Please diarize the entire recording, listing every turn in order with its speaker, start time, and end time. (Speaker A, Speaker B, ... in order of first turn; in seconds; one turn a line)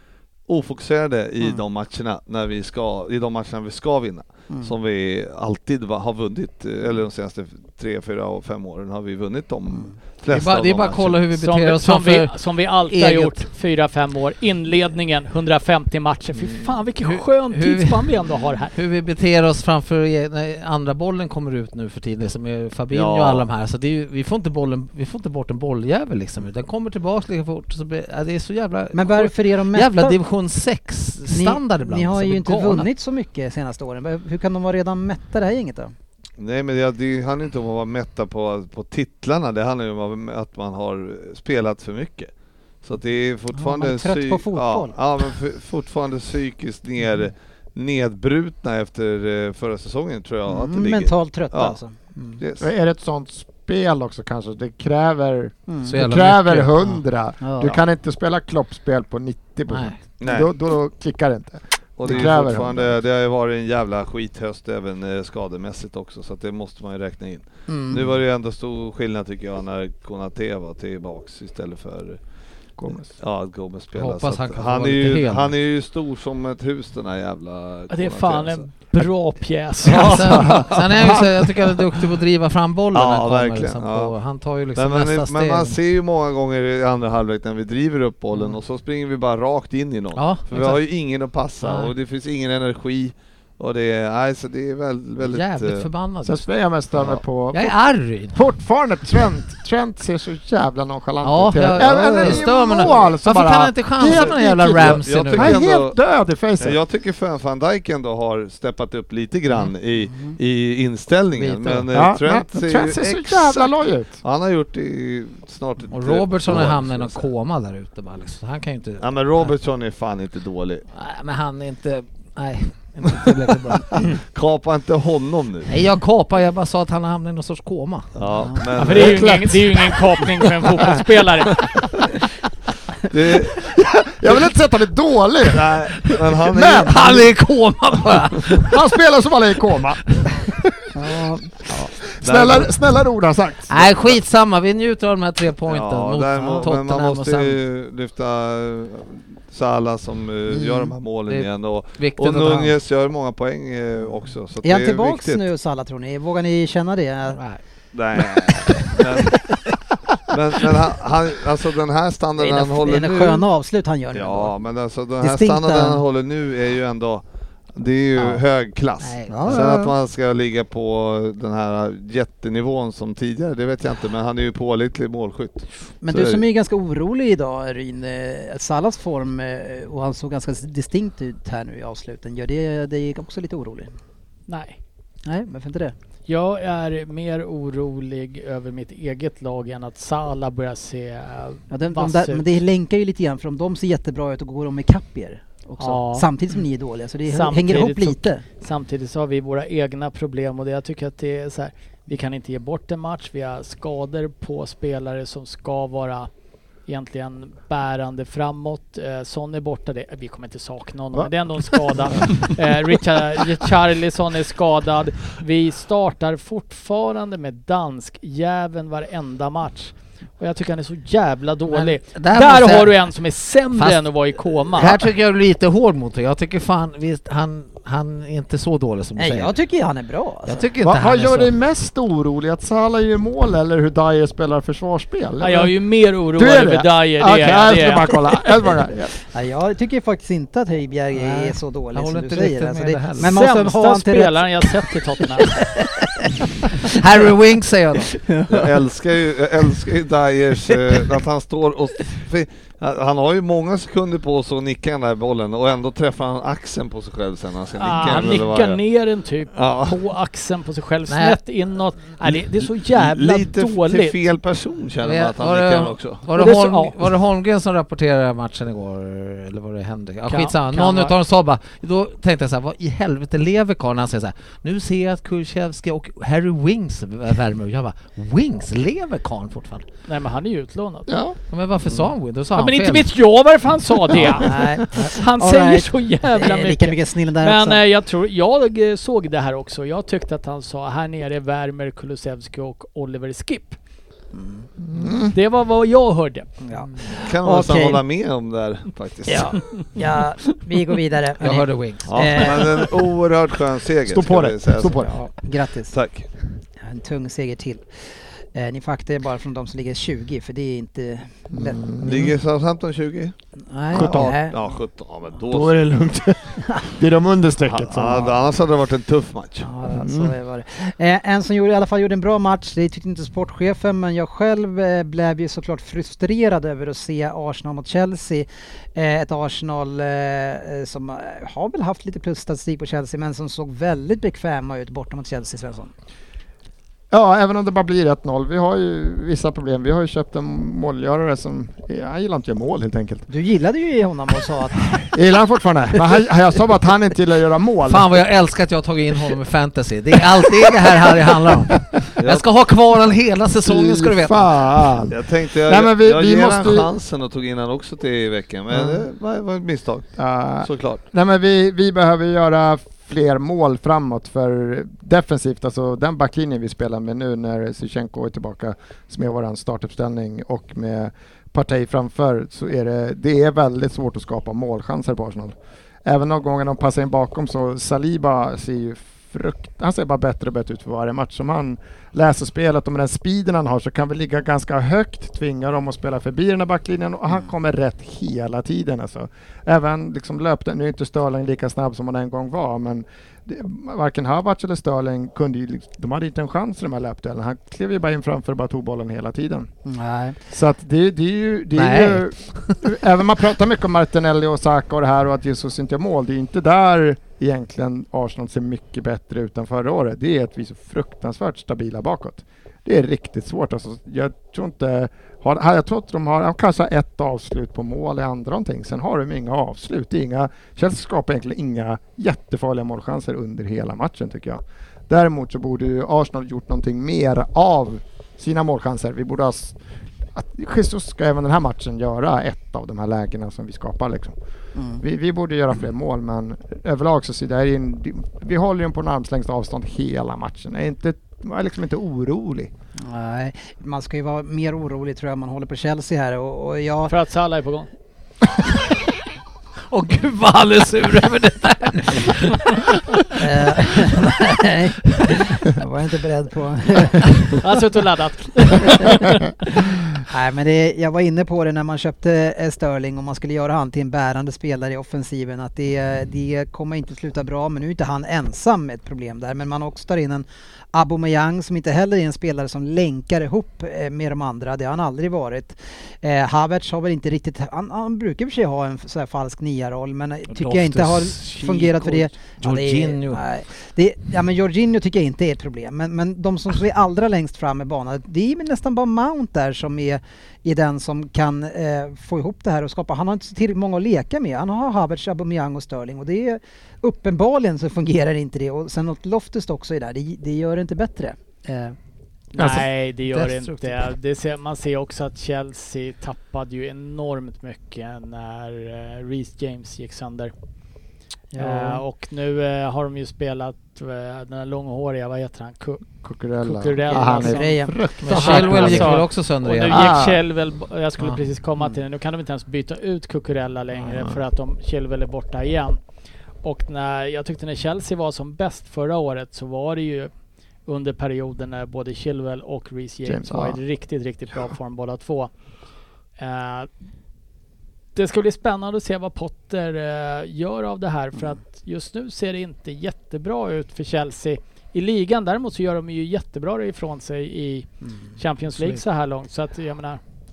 Speaker A: 0.5-11.2
Speaker B: 10.3-12.4
Speaker C: 11.4-18.8
Speaker B: 12.9-13.4
Speaker B: 17.0-18.1
Speaker B: 18.7-32.9
Speaker A: 22.9-23.4
Speaker D: 28.9-30.2
Speaker D: 31.3-35.9
Speaker A: 36.4-42.3
Speaker A: 42.8-51.8
Speaker D: 43.5-45.0
Speaker D: 50.5-52.4
Speaker A: 52.4-52.7
Speaker E: 52.6-62.9
Speaker D: 55.7-56.0
Speaker B: 55.9-56.9
Speaker D: 57.4-57.8
Speaker B: 59.7-60.0
Speaker A: 60.2-60.5
Speaker A: 62.0-72.2
Speaker D: 67.7-68.1
Speaker E: 72.8-73.1
Speaker A: 73.1-78.7
Speaker B: 74.0-75.5
Speaker C: 77.9-80.5
Speaker A: 79.8-81.5
Speaker B: 80.0-85.8
Speaker E: 80.5-81.4
Speaker A: 82.9-84.1
Speaker A: 84.8-95.9
Speaker B: 90.2-90.8
Speaker B: 91.6-91.9
Speaker B: 95.2-96.5
Speaker E: 96.2-97.8
Speaker B: 97.5-98.5
Speaker E: 98.3-106.8
Speaker B: 101.2-105.6
Speaker A: 101.8-103.1
Speaker A: 104.1-106.0
Speaker A: 106.6-117.2
Speaker B: 111.3-112.0
Speaker E: 111.9-114.2
Speaker B: 115.9-119.5
Speaker A: 119.0-120.8
Speaker B: 120.9-124.2
Speaker A: 123.8-125.7
Speaker B: 125.7-128.1
Speaker A: 128.2-129.5
Speaker C: 128.8-131.6
Speaker E: 128.8-130.2
Speaker A: 133.1-133.7
Speaker E: 133.7-135.8
Speaker A: 135.5-137.3
Speaker E: 136.4-137.3
Speaker B: 136.8-138.8
Speaker E: 138.5-140.9
Speaker D: 140.9-141.6
Speaker E: 142.0-143.9
Speaker A: 142.2-142.7
Speaker B: 143.7-147.6
Speaker A: 145.7-155.4
Speaker B: 150.5-152.7
Speaker D: 154.6-157.4
Speaker B: 157.3-157.6
Speaker A: 157.9-159.6
Speaker B: 158.7-159.0
Speaker A: 160.3-163.5
Speaker D: 162.4-164.5
Speaker A: 164.1-176.4
Speaker D: 165.2-166.0
Speaker B: 169.0-169.6
Speaker D: 169.3-169.9
Speaker D: 176.0-183.9
Speaker C: 184.5-184.8
Speaker D: 185.2-185.9
Speaker C: 186.3-192.5
Speaker D: 191.7-198.4
Speaker C: 195.8-196.3
Speaker C: 197.3-206.3
Speaker C: 206.9-225.0
Speaker B: 221.7-223.0
Speaker B: 223.7-224.0
Speaker B: 224.7-229.6
Speaker D: 229.2-230.7
Speaker B: 230.5-231.5
Speaker E: 230.8-235.7
Speaker C: 235.4-238.5
Speaker E: 236.4-239.2
Speaker D: 239.3-244.7
Speaker B: 241.1-243.4
Speaker C: 243.2-245.6
Speaker D: 245.5-247.0
Speaker B: 246.8-248.2
Speaker D: 248.2-248.7
Speaker A: 248.5-258.8
Speaker C: 257.8-264.2
Speaker A: 259.5-260.0
Speaker B: 261.1-261.4
Speaker A: 262.9-266.2
Speaker B: 265.0-279.9
Speaker C: 266.4-267.0
Speaker C: 270.3-271.1
Speaker C: 280.1-281.1
Speaker E: 281.1-281.4
Speaker B: 281.5-283.1
Speaker C: 282.6-293.8
Speaker D: 284.4-287.8
Speaker D: 294.3-294.7
Speaker E: 294.8-295.3
Speaker C: 295.3-296.5
Speaker D: 296.6-298.0
Speaker A: 297.1-299.6
Speaker D: 299.3-302.9
Speaker B: 301.4-302.2
Speaker A: 302.1-305.1
Speaker E: 304.1-305.1
Speaker D: 305.0-305.9
Speaker A: 305.9-306.3
Speaker D: 306.8-307.8
Speaker D: 308.5-312.1
Speaker E: 311.5-312.3
Speaker A: 312.0-313.3
Speaker D: 313.7-314.6
Speaker E: 313.9-314.4
Speaker A: 313.9-315.8
Speaker E: 315.5-318.4
Speaker A: 317.7-319.7
Speaker D: 319.6-335.9
Speaker E: 319.9-320.3
Speaker E: 337.1-343.3
Speaker D: 343.3-345.1
Speaker E: 345.1-348.1
Speaker B: 347.9-354.7
Speaker A: 352.2-352.5
Speaker E: 353.6-356.9
Speaker A: 355.1-361.0
Speaker E: 358.7-359.0
Speaker E: 360.2-399.7
Speaker D: 399.9-400.4
Speaker E: 400.5-429.8
Speaker B: 401.7-402.8
Speaker E: 430.4-434.4
Speaker D: 434.8-435.0
Speaker E: 435.0-442.7
Speaker D: 443.0-447.1
Speaker C: 447.1-447.9
Speaker B: 449.9-453.3
Speaker D: 453.4-457.6
Speaker C: 457.6-459.4
Speaker D: 458.8-459.3
Speaker D: 460.3-502.0
Speaker B: 480.5-483.4
Speaker C: 502.5-510.5
Speaker E: 502.6-502.9
Speaker B: 503.3-504.1
Speaker D: 511.5-512.0
Speaker C: 511.6-516.0
Speaker E: 516.2-519.2
Speaker C: 516.6-526.0
Speaker D: 517.1-518.8
Speaker B: 518.2-520.2
Speaker E: 519.9-520.4
Speaker C: 526.6-530.3
Speaker C: 530.9-535.5
Speaker E: 533.2-533.8
Speaker C: 536.4-536.9
Speaker C: 538.1-550.2